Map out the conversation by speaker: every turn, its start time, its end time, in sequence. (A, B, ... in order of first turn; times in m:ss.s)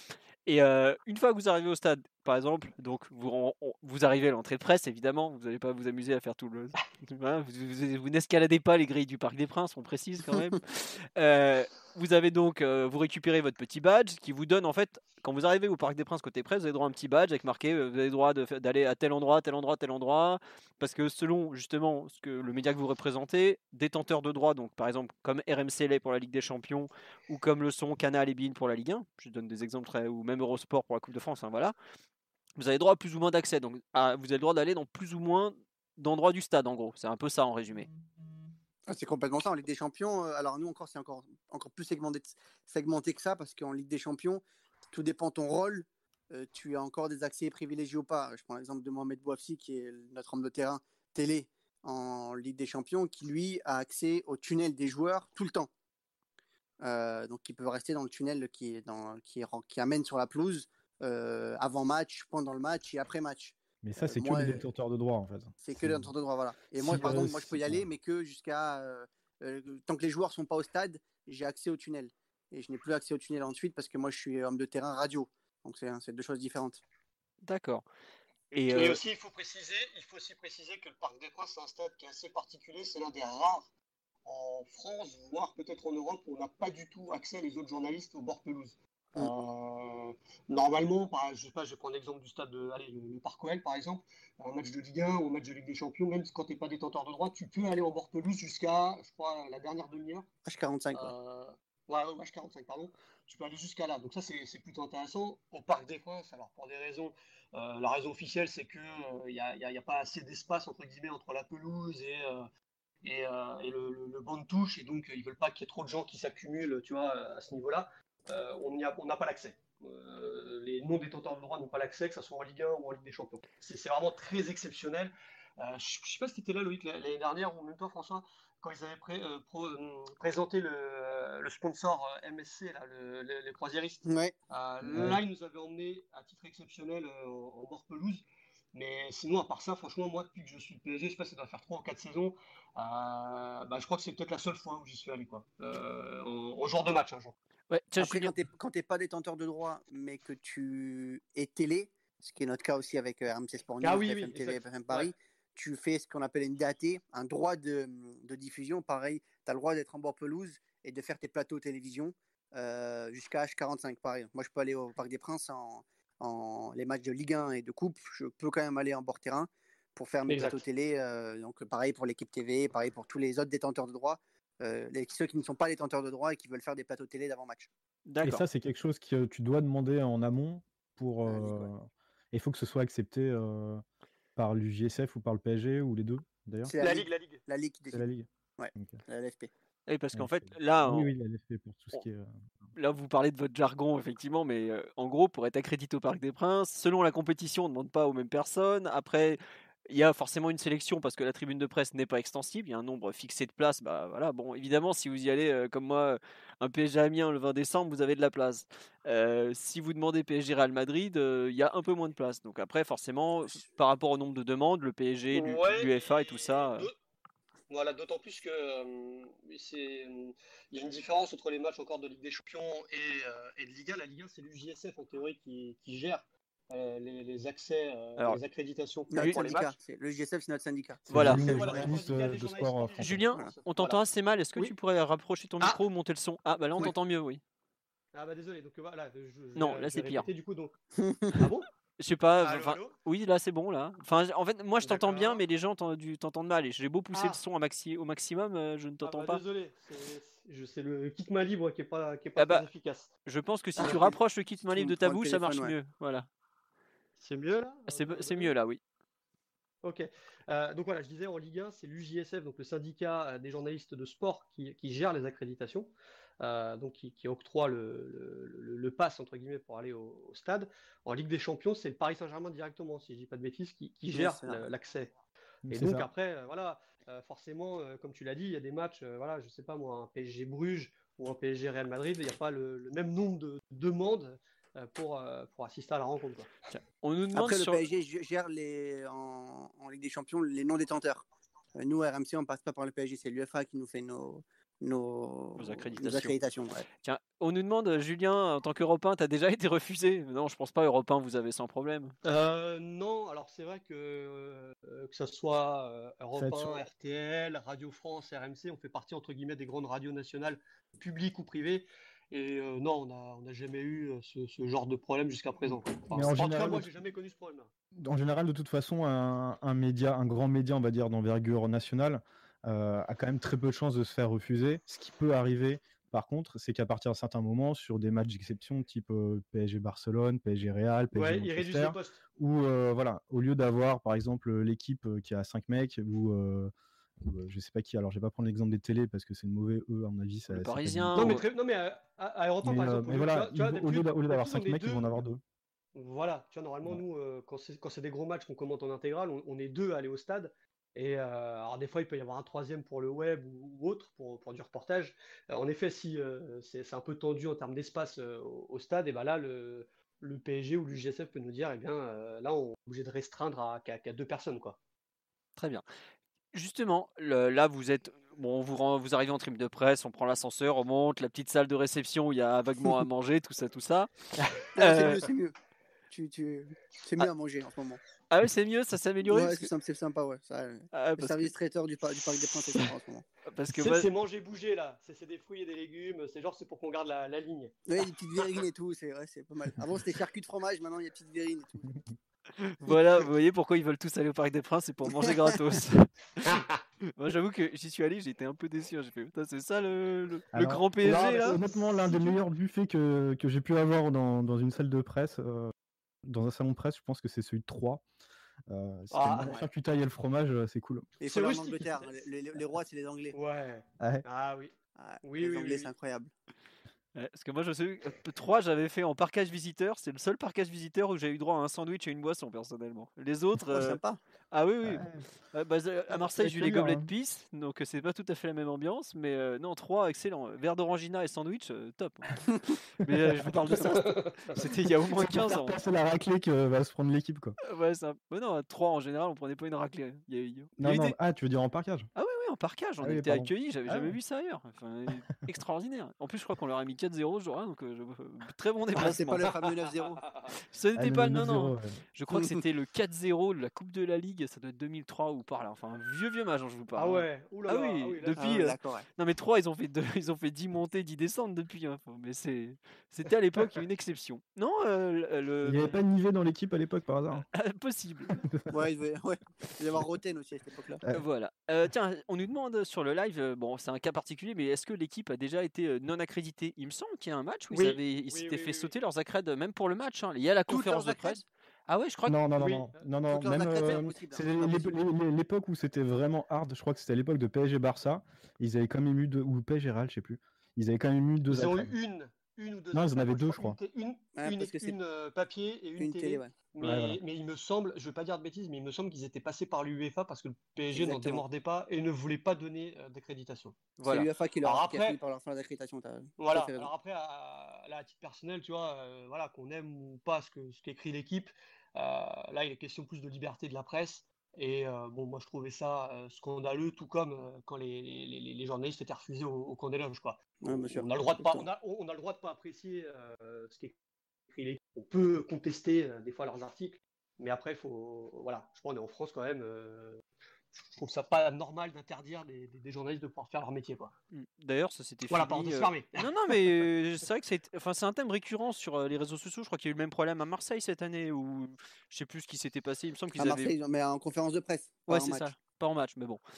0:00.4-0:31.7 A
0:32.6-0:37.9 A
0:38.9-0:55.7 B
0:56.8-1:04.6 B
1:03.8-1:06.1 C
1:05.6-1:16.8 B
1:06.7-1:07.8 C
1:17.4-1:17.8 A
1:18.5-1:19.0 A
1:18.7-1:23.7 D
1:24.2-1:40.2 D
1:40.4-1:41.1 B
1:40.9-1:52.5 D
1:53.0-2:27.3 D
2:14.0-2:14.3 B
2:14.9-2:15.2 C
2:27.7-2:28.4 A
2:28.0-2:57.7 B
2:33.8-2:35.1 D
2:50.3-2:50.6 D
2:58.0-2:58.4 A
2:58.2-3:03.8 C
3:01.2-3:01.7 B
3:04.4-3:06.7 C
3:06.6-3:08.0 B
3:06.8-3:07.4 D
3:07.9-3:09.0 C
3:08.6-3:09.5 B
3:09.9-3:11.1 A
3:10.1-3:12.3 C
3:12.8-3:36.9 A
3:35.3-3:36.9 D
3:37.7-3:49.8 D
3:49.1-3:52.0 B
3:49.2-3:49.4 A
3:51.1-3:53.3 C
3:51.1-3:51.4 A
3:51.2-3:54.0 D
3:53.0-3:57.4 A
3:58.1-4:00.7 D
3:59.6-4:00.3 A
4:01.0-4:01.4 B
4:01.3-4:01.7 D
4:02.0-4:09.4 A
4:02.4-4:02.9 D
4:04.8-4:05.4 D
4:07.1-4:07.4 D
4:09.0-4:13.1 D
4:12.4-4:12.7 A
4:13.2-4:16.3 A
4:13.8-4:15.7 B
4:17.2-4:18.5 D
4:17.9-4:18.8 A
4:19.8-4:35.1 D
4:34.1-4:34.6 B
4:35.6-4:36.1 C
4:35.7-4:46.5 D
4:46.7-4:47.8 A
4:47.3-4:56.8 B
4:55.6-4:56.4 A
4:57.0-5:02.1 A
5:02.2-5:17.7 D
5:06.4-5:06.8 C
5:16.1-5:16.9 C
5:18.0-5:41.4 C
5:31.1-5:32.2 D
5:40.5-5:41.4 A
5:41.2-5:45.2 D
5:42.6-5:45.4 C
5:45.9-6:04.8 D
6:05.6-6:05.8 A
6:06.5-6:15.2 A
6:14.7-6:15.5 B
6:16.1-6:18.0 B
6:18.3-6:19.7 A
6:19.2-6:23.2 B
6:20.9-6:21.5 A
6:23.4-6:24.1 A
6:23.7-6:28.1 D
6:27.9-6:32.0 B
6:32.6-6:36.6 A
6:36.5-6:36.8 D
6:37.2-6:41.6 A
6:40.5-6:45.7 C
6:41.0-6:42.4 D
6:46.2-6:48.0 C
6:48.7-6:51.1 C
6:49.1-6:49.5 D
6:51.2-6:53.4 B
6:51.2-6:52.1 D
6:53.3-6:54.7 D
6:55.0-6:56.3 B
6:55.2-6:55.9 D
6:57.1-7:04.0 A
7:03.7-7:04.2 B
7:04.5-7:12.4 A
7:04.8-7:05.2 C
7:06.1-7:07.1 C
7:13.0-7:15.8 A
7:13.0-7:13.4 C
7:15.0-7:17.6 C
7:17.6-7:21.2 A
7:20.8-7:22.1 C
7:22.2-7:29.5 A
7:23.0-7:24.2 C
7:29.0-7:30.2 B
7:29.4-7:30.5 D
7:30.7-7:46.0 A
7:31.0-7:32.0 C
7:36.9-7:38.7 D
7:38.3-7:39.0 B
7:45.6-7:47.4 C
7:47.3-7:48.4 A
7:48.4-7:48.7 C
7:48.7-7:51.0 B
7:51.1-8:02.8 A
7:57.7-7:58.9 D
8:00.7-8:01.4 B
8:02.3-8:11.9 C
8:02.6-8:04.9 B
8:11.5-8:23.8 D
8:12.9-8:13.8 C
8:14.4-8:14.9 B
8:16.0-8:16.5 B
8:16.8-8:17.2 C
8:20.9-8:21.4 B
8:24.0-8:24.3 A
8:24.0-8:26.9 B
8:24.6-8:25.2 D
8:26.4-8:43.9 D
8:40.6-8:41.7 B
8:44.5-8:50.2 D
8:50.7-8:54.1 D
8:54.3-9:03.7 A
8:55.3-8:56.8 D
9:03.4-9:05.5 B
9:05.1-9:06.4 A